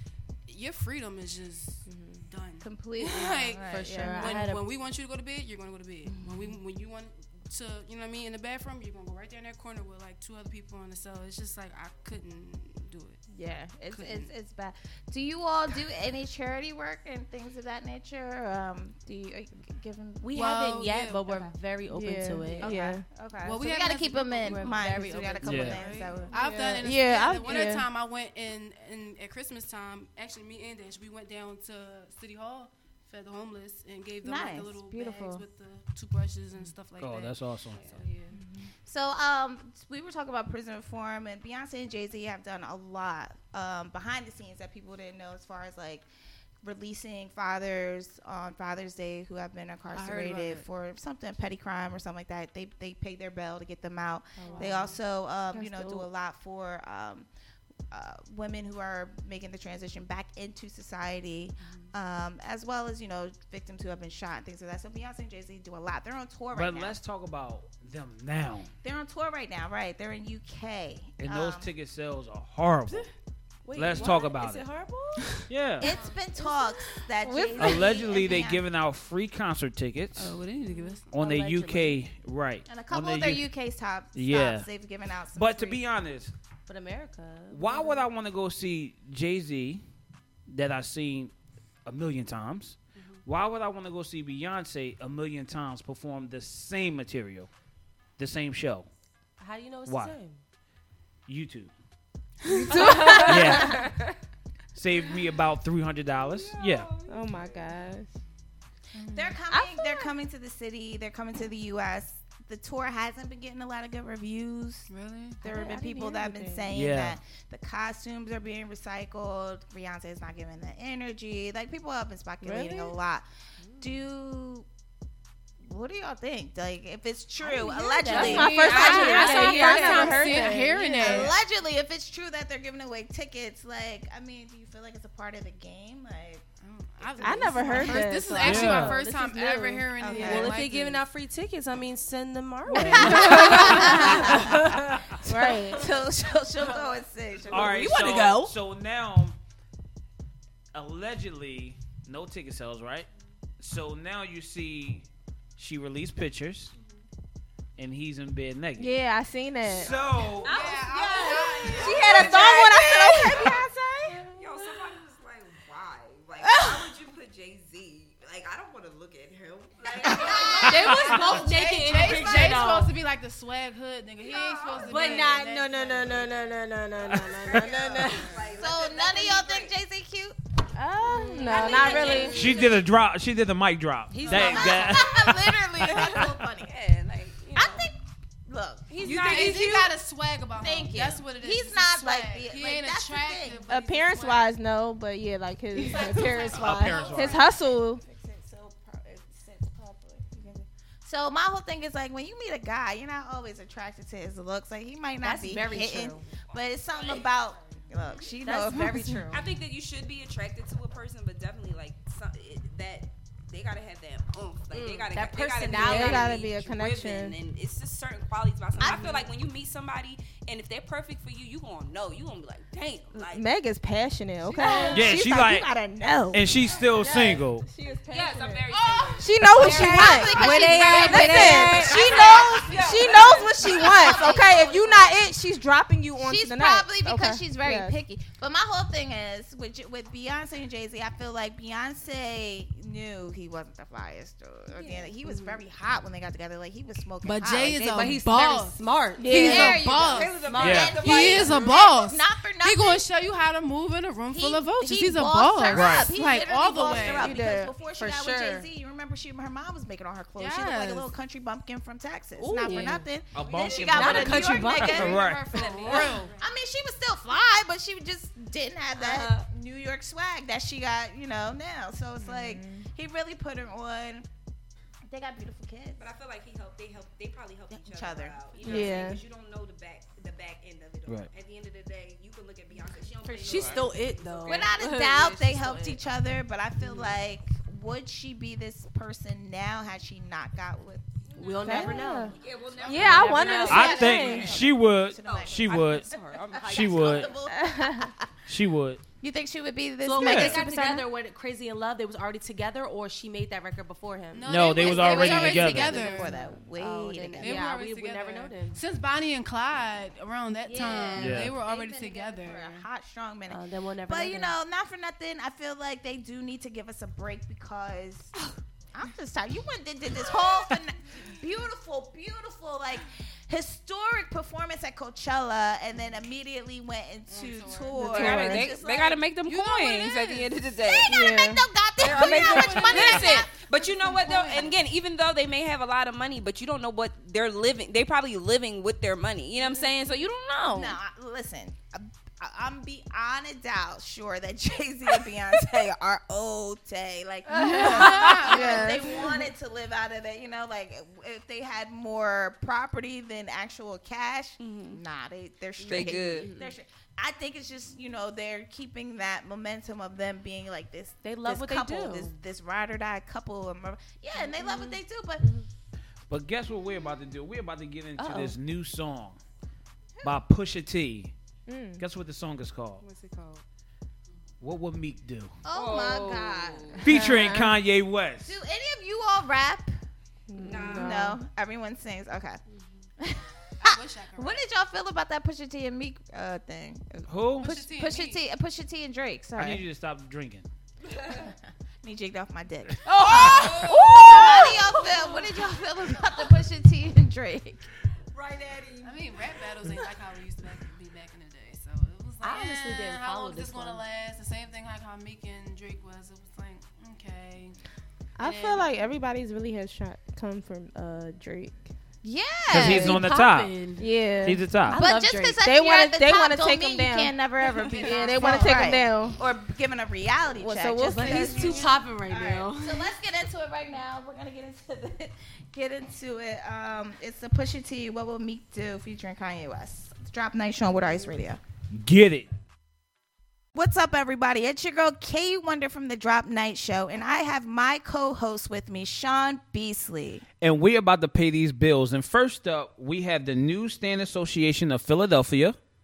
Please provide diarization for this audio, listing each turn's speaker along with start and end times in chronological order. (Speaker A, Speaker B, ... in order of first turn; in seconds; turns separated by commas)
Speaker A: 0.5-13.2, Speaker B: 1.9-2.2, Speaker C: 2.6-4.3, Speaker B: 3.7-4.6, Speaker D: 3.9-4.4, Speaker B: 6.1-6.5, Speaker C: 13.3-20.5, Speaker A: 13.9-14.3, Speaker B: 20.2-22.8, Speaker A: 20.3-21.5, Speaker D: 21.9-23.0, Speaker C: 22.6-26.4, Speaker A: 23.4-38.4, Speaker B: 24.4-25.8, Speaker E: 25.4-25.8, Speaker D: 26.3-27.9, Speaker B: 26.3-26.7, Speaker C: 27.5-27.7, Speaker C: 34.2-35.4, Speaker E: 37.0-37.8, Speaker F: 37.7-38.0, Speaker D: 38.4-38.7, Speaker C: 38.8-46.0, Speaker C: 46.6-57.3, Speaker A: 49.9-50.6, Speaker B: 54.4-55.0, Speaker A: 54.4-54.9, Speaker C: 57.9-67.0, Speaker E: 66.5-68.7, Speaker C: 68.8-71.7, Speaker E: 71.2-73.1, Speaker B: 73.6-75.3, Speaker E: 73.8-74.7, Speaker E: 75.5-75.9, Speaker C: 75.8-78.6, Speaker A: 75.8-76.2, Speaker D: 77.2-78.0, Speaker E: 77.6-80.4, Speaker F: 80.2-80.9, Speaker A: 80.5-81.1, Speaker B: 80.7-82.0, Speaker E: 81.1-83.5, Speaker C: 82.7-85.8, Speaker E: 84.1-84.7, Speaker E: 85.3-86.3, Speaker B: 86.7-88.0, Speaker E: 87.5-89.8, Speaker E: 90.5-91.3, Speaker E: 91.8-97.5, Speaker A: 93.0-93.2, Speaker E: 98.2-98.9, Speaker B: 99.4-100.4, Speaker E: 99.8-100.2, Speaker E: 101.3-101.7, Speaker A: 102.4-103.5, Speaker D: 102.7-103.7, Speaker B: 102.7-103.8, Speaker E: 103.3-103.9, Speaker E: 104.7-106.9, Speaker F: 106.2-107.7, Speaker D: 107.1-108.1, Speaker A: 108.9-109.4, Speaker C: 109.1-114.9, Speaker D: 109.5-110.1, Speaker A: 114.9-115.4, Speaker C: 115.4-123.2, Speaker D: 115.5-116.7, Speaker E: 116.7-117.2, Speaker D: 122.4-122.9, Speaker B: 123.6-124.0, Speaker C: 123.8-124.7, Speaker C: 125.6-130.5, Speaker B: 127.4-130.6, Speaker D: 128.0-131.3, Speaker A: 128.0-131.3, Speaker C: 131.0-136.4, Speaker A: 136.6-141.0, Speaker C: 137.0-137.4, Speaker D: 137.2-139.8, Speaker B: 137.8-145.1, Speaker E: 138.4-139.0, Speaker C: 140.0-140.6, Speaker D: 142.7-144.4, Speaker C: 142.8-144.5, Speaker D: 145.2-145.9, Speaker C: 145.5-148.1, Speaker E: 147.5-149.4, Speaker B: 147.6-148.5, Speaker E: 150.7-153.1, Speaker E: 153.6-155.1, Speaker E: 155.6-156.7, Speaker E: 157.8-158.9, Speaker D: 158.8-159.9, Speaker E: 159.6-160.6, Speaker F: 159.8-163.6, Speaker A: 160.3-162.5, Speaker D: 161.7-164.4, Speaker F: 164.3-172.6, Speaker D: 166.4-166.8, Speaker A: 170.2-176.4, Speaker C: 170.3-170.6, Speaker E: 170.6-171.1, Speaker B: 170.6-172.9, Speaker F: 174.2-175.4, Speaker B: 174.8-178.4, Speaker F: 177.3-179.7, Speaker A: 177.6-178.2, Speaker C: 178.5-180.4, Speaker D: 180.8-182.4, Speaker B: 181.1-182.4, Speaker F: 181.3-182.8, Speaker C: 181.5-182.5, Speaker E: 182.3-185.3, Speaker B: 184.1-185.3, Speaker C: 184.3-186.7, Speaker F: 186.0-187.9, Speaker C: 187.5-189.8, Speaker F: 188.9-189.9, Speaker A: 189.0-194.5, Speaker C: 190.6-193.6, Speaker D: 193.7-198.0, Speaker F: 195.8-197.1, Speaker C: 195.9-209.4, Speaker E: 196.5-197.4, Speaker B: 205.2-206.3, Speaker F: 206.3-207.8, Speaker B: 208.4-209.4, Speaker F: 209.3-223.4, Speaker B: 214.7-216.4, Speaker D: 215.7-217.3, Speaker C: 218.8-219.2, Speaker D: 223.2-237.9, Speaker F: 224.4-225.1, Speaker E: 224.9-225.7, Speaker E: 226.3-227.7, Speaker F: 228.1-234.4, Speaker A: 228.7-229.2, Speaker C: 229.6-235.2, Speaker B: 229.6-232.6, Speaker C: 236.2-248.2, Speaker F: 244.8-245.1, Speaker A: 247.2-257.4, Speaker B: 247.9-249.8, Speaker D: 249.2-249.8, Speaker C: 249.3-253.0, Speaker F: 249.8-251.7, Speaker B: 250.4-251.2, Speaker E: 250.6-250.9, Speaker C: 254.3-265.3, Speaker E: 255.7-256.1, Speaker D: 256.9-258.6, Speaker A: 260.4-261.1, Speaker B: 262.4-263.1, Speaker D: 262.7-263.0, Speaker E: 263.3-265.6, Speaker F: 263.4-264.4, Speaker B: 263.9-265.1, Speaker A: 264.6-266.3, Speaker F: 265.2-266.5, Speaker C: 265.8-274.2, Speaker B: 265.9-266.1, Speaker F: 268.9-269.5, Speaker D: 272.2-272.9, Speaker C: 275.1-276.1, Speaker F: 276.0-284.8, Speaker C: 277.7-278.9, Speaker A: 278.6-279.0, Speaker D: 278.6-279.2, Speaker B: 283.2-286.0, Speaker C: 284.5-291.0, Speaker F: 291.3-294.7, Speaker B: 291.3-294.0, Speaker C: 291.6-292.3, Speaker D: 291.7-292.3, Speaker C: 292.8-298.2, Speaker D: 292.9-294.6, Speaker E: 293.7-296.1, Speaker F: 295.2-297.4, Speaker E: 296.6-297.3, Speaker D: 297.5-298.1, Speaker E: 298.5-299.0, Speaker C: 299.2-301.1, Speaker B: 300.0-304.5, Speaker E: 300.2-300.6, Speaker A: 304.3-306.4, Speaker E: 304.4-306.0, Speaker C: 304.7-307.6, Speaker B: 305.9-308.8, Speaker A: 307.4-312.8, Speaker C: 310.6-318.3, Speaker E: 311.2-311.5, Speaker B: 313.5-314.6, Speaker C: 318.9-329.2, Speaker A: 327.3-328.6, Speaker D: 328.0-328.6, Speaker F: 328.1-331.1, Speaker A: 329.4-330.6, Speaker C: 330.8-333.5, Speaker D: 331.1-331.6, Speaker F: 332.0-341.0, Speaker A: 332.0-334.7, Speaker C: 340.7-365.5, Speaker D: 347.5-349.3, Speaker A: 347.7-349.0, Speaker F: 354.6-355.0, Speaker F: 355.8-356.5, Speaker B: 355.9-356.7, Speaker B: 361.2-362.4, Speaker B: 364.4-364.9, Speaker E: 366.3-369.4, Speaker B: 368.2-368.5, Speaker E: 370.2-371.3, Speaker D: 371.7-372.0, Speaker E: 372.0-373.0, Speaker F: 373.0-373.6, Speaker E: 374.6-375.5, Speaker C: 375.6-377.0, Speaker F: 375.7-377.1, Speaker E: 377.0-378.6, Speaker D: 377.1-377.7, Speaker C: 378.4-380.0, Speaker D: 380.5-381.4, Speaker F: 380.6-381.3, Speaker B: 380.6-381.1, Speaker C: 380.9-382.6, Speaker C: 383.2-389.8, Speaker A: 383.8-384.6, Speaker E: 387.3-387.7, Speaker A: 387.6-388.4, Speaker E: 389.6-390.7, Speaker C: 392.0-397.8, Speaker A: 393.1-395.2, Speaker F: 393.1-395.4, Speaker B: 394.2-394.7, Speaker F: 398.3-399.1, Speaker A: 399.0-407.8, Speaker B: 402.4-404.0, Speaker D: 408.4-411.9, Speaker A: 408.4-408.9, Speaker C: 412.2-413.2, Speaker E: 412.7-413.8, Speaker B: 412.7-414.1, Speaker D: 414.0-414.7, Speaker E: 414.4-415.0, Speaker B: 414.8-415.6, Speaker C: 414.9-431.6, Speaker D: 415.6-417.4, Speaker A: 417.8-419.0, Speaker D: 418.0-419.4, Speaker D: 420.6-421.9, Speaker B: 421.0-423.1, Speaker E: 431.9-432.5, Speaker C: 433.7-440.4, Speaker E: 440.6-445.8